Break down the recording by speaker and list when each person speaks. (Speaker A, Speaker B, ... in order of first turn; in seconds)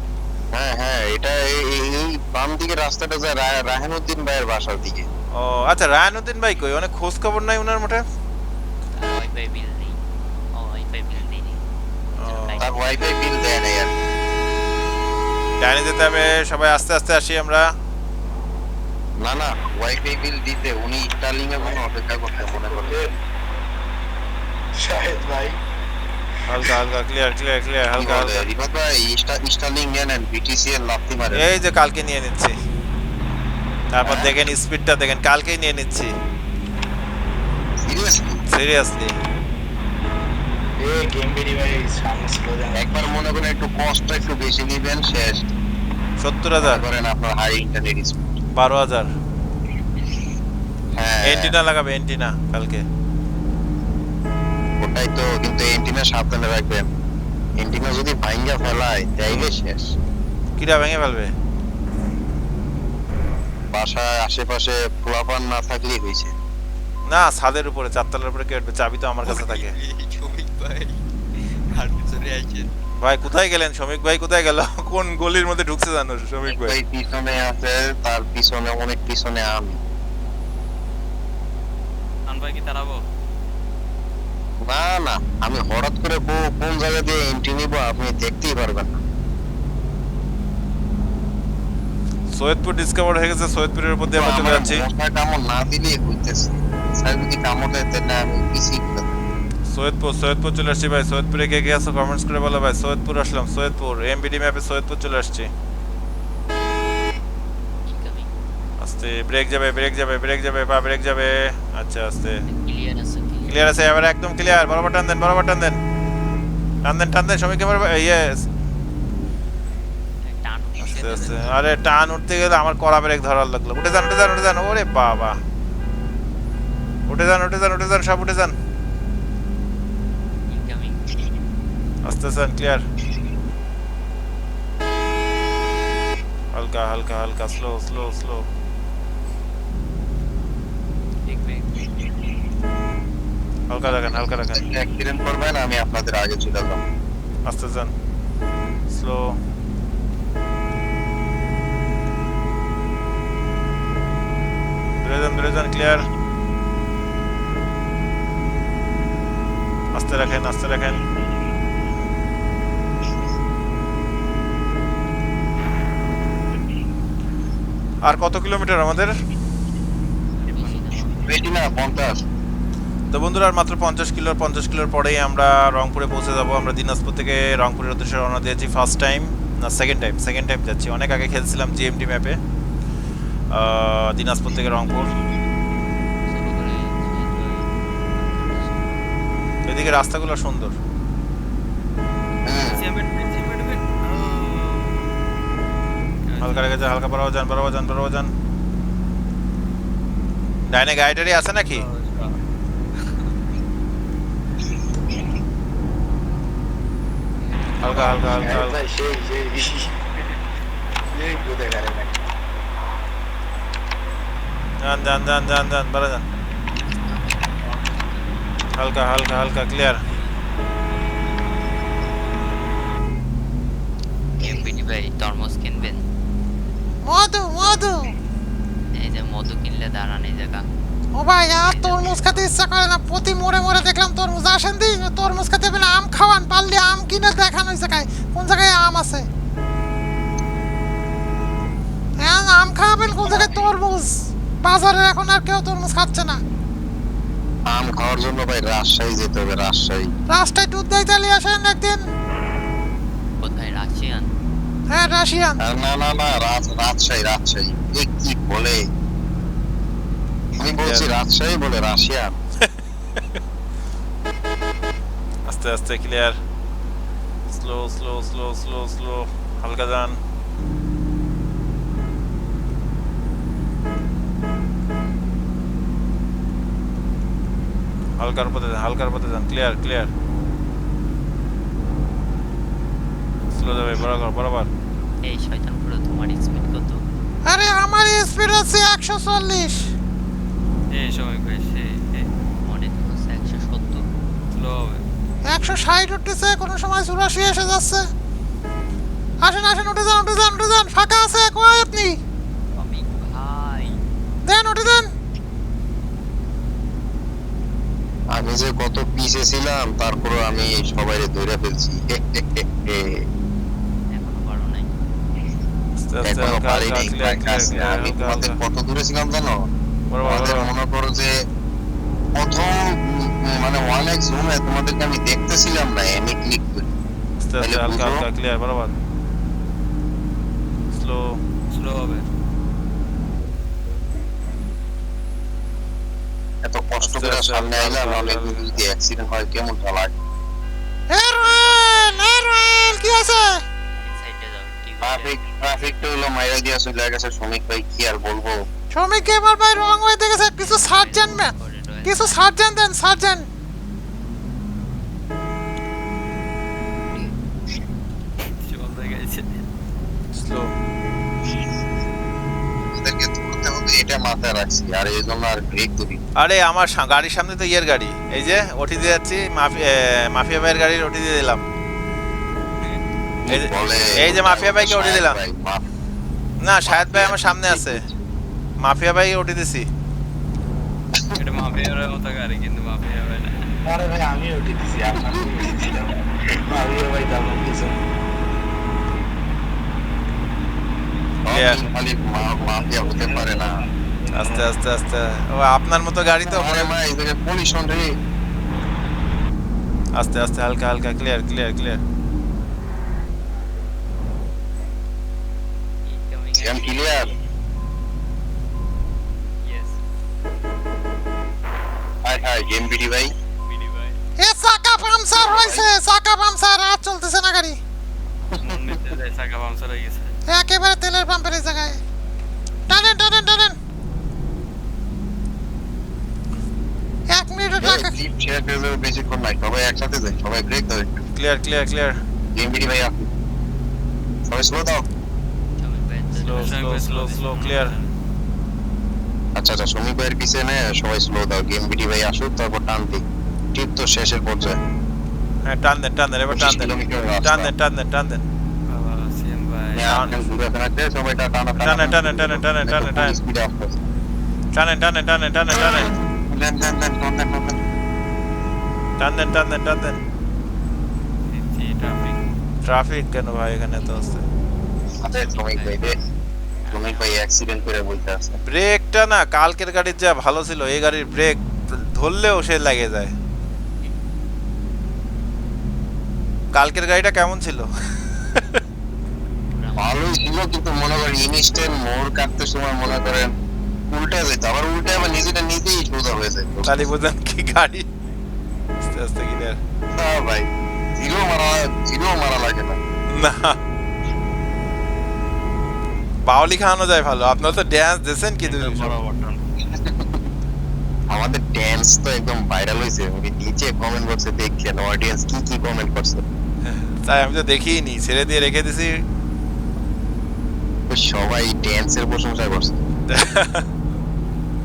Speaker A: 0.5-5.0, 12.6-13.9, 19.2-23.1, 28.0-31.4, 34.0-34.3, 37.8-38.4, 42.7-45.5, 46.6-48.3, 50.9-51.5, 54.8-56.9, 57.6-59.9, 63.7-66.3, 76.5-79.8, 84.6-89.0, 94.1-99.2, 143.9-146.8, 171.2-172.2, 192.4-192.8, 243.3-243.5, 247.7-250.1, 255.6-258.8, 260.6-262.3, 308.3-313.2, 316.2-319.7, 320.2-321.3, 322.3-326.9, 327.6-328.2, 336.6-340.1, 345.0-348.6, 363.0-366.2, 373.4-375.8, 376.9-378.1, 391.4-393.7, 396.4-398.1, 406.6-407.3, 412.2-413.3, 415.3-415.9, 418.5-419.0, 427.8-431.1, 432.5-433.3, 434.5-435.0, 439.6-443.2, 443.7-444.8, 446.5-447.7, 449.9-454.0, 456.1-457.8, 465.2-466.2, 466.9-468.6, 480.0-483.5, 484.1-487.1, 490.1-493.0, 499.9-500.4, 501.3-506.4, 511.1-513.0
Speaker B: 5.3-8.0, 12.2-12.6, 15.6-17.6, 26.5-28.4, 31.3-32.5, 33.9-36.1, 38.5-39.1, 46.2-46.8, 48.5-49.1, 51.2-52.8, 59.3-59.5, 60.6-61.3, 67.1-69.7, 73.0-76.8, 92.3-94.8, 99.7-105.5, 108.8-112.4, 113.5-115.8, 116.8-118.4, 120.8-125.4, 127.1-128.5, 132.0-132.8, 136.5-138.4, 143.7-144.6, 147.4-147.9, 148.9-149.4, 155.0-156.1, 159.9-161.0, 168.0-169.1, 173.1-182.4, 183.5-185.1, 189.7-190.8, 196.4-198.3, 200.7-201.8, 207.8-208.8, 214.8-216.2, 218.7-220.0, 260.8-261.1, 262.6-263.2, 265.4-266.4, 267.5-270.2, 278.2-280.1, 283.5-284.7, 316.0-318.6, 320.1-320.7, 327.4-328.9, 330.9-331.4, 337.0-338.8, 360.3-360.7, 366.4-371.6, 373.5-375.4, 376.6-378.0, 378.8-379.9, 391.5-391.8, 394.3-396.9, 400.1-402.0, 431.3-432.2, 436.3-437.9, 445.7-448.4, 450.1-450.3, 451.8-453.4, 454.7-456.1, 459.2-460.2, 462.8-464.4, 468.7-473.3, 476.7-478.8, 486.8-488.1, 489.0-489.8, 493.3-493.8, 496.4-499.1, 506.8-509.2, 513.3-513.9
Speaker C: 8.9-10.0, 10.5-11.6, 12.2-13.0, 69.2-71.0, 71.7-72.7, 107.9-108.3, 112.5-113.6, 120.2-121.6, 130.5-131.2, 141.2-142.1, 170.4-171.3, 186.3-188.9, 224.4-226.1, 228.9-230.7, 231.5-232.4, 253.4-254.3, 285.2-287.0, 292.6-294.0, 302.7-304.0, 314.1-314.9, 341.5-342.3, 344.0-345.5, 350.6-352.4, 406.1-407.3, 409.6-410.0, 413.7-414.1, 435.8-436.8, 465.3-466.0, 466.8-467.4, 479.7-480.3, 498.7-499.6
Speaker D: 22.4-23.1, 24.7-25.6, 40.8-43.1, 207.9-210.0, 211.1-212.1, 383.8-388.0
Speaker E: 82.3-83.0, 170.5-170.8, 192.7-195.1, 196.3-196.8, 201.7-202.4, 290.9-292.3, 294.5-295.0, 331.7-332.2, 358.4-359.6, 381.4-383.7, 418.5-420.4, 436.5-438.1, 448.9-450.5, 461.5-462.4
Speaker F: 227.0-228.1, 231.1-239.3, 242.2-246.4, 250.3-252.0, 254.9-255.6, 287.4-289.9, 295.5-298.0, 299.4-302.2, 304.4-305.1, 341.1-343.6, 348.9-351.5, 352.0-353.5, 414.4-417.8, 420.5-422.0, 422.9-423.8, 427.3-428.1